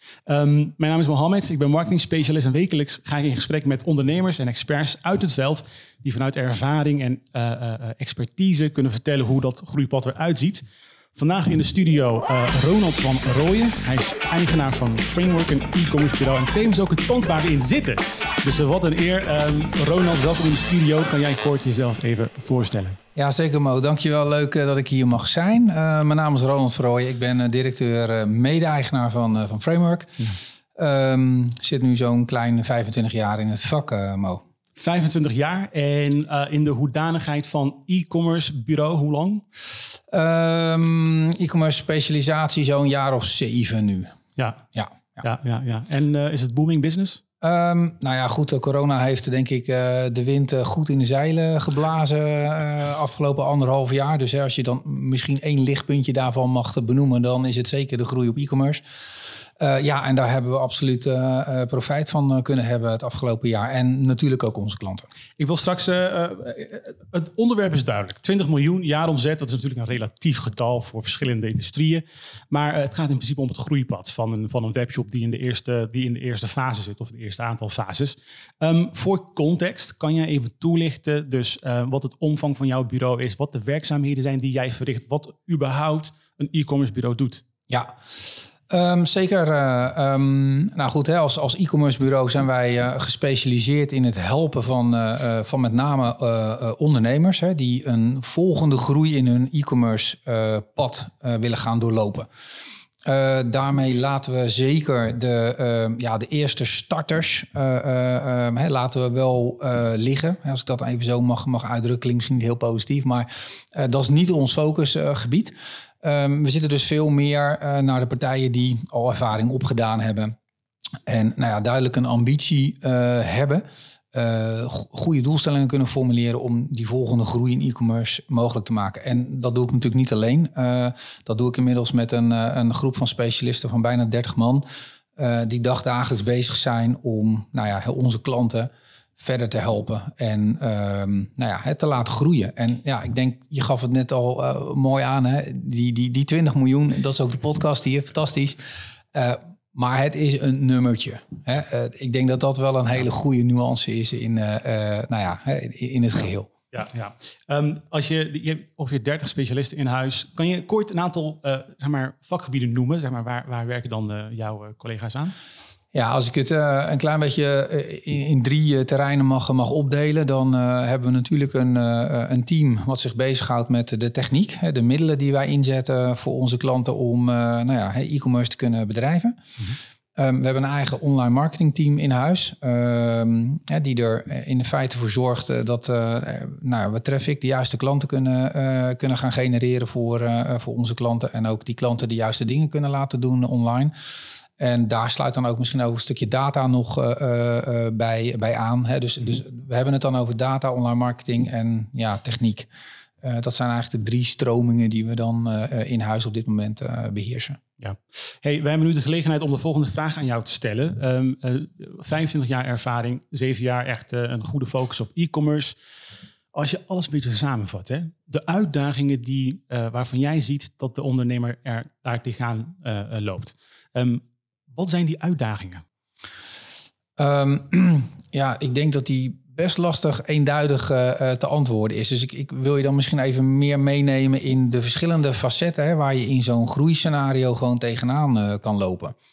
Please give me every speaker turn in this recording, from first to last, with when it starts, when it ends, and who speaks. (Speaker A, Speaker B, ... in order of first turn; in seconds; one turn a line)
Speaker A: 0.3-10.6
Speaker A: 11.1-23.0
Speaker B: 23.1-30.2
Speaker B: 30.8-34.4
Speaker A: 34.8-39.4
Speaker B: 40.1-44.2
Speaker A: 44.4-44.6
Speaker B: 44.7-45.2
Speaker A: 45.2-47.2
Speaker B: 47.4-58.8
Speaker B: 59.6-65.0
Speaker A: 65.4-87.4
Speaker B: 87.7-102.3
Speaker B: 103.0-120.3
Speaker B: 121.0-134.6
Speaker B: 135.2-148.6
Speaker B: 149.1-156.5
Speaker A: 156.7-165.3
Speaker B: 165.9-179.4
Speaker B: 180.1-193.9
Speaker B: 194.6-202.7
Speaker B: 203.2-207.6
Speaker A: 207.8-215.8
Speaker A: 216.5-224.2
Speaker A: 224.7-225.8
Speaker B: 227.2-239.2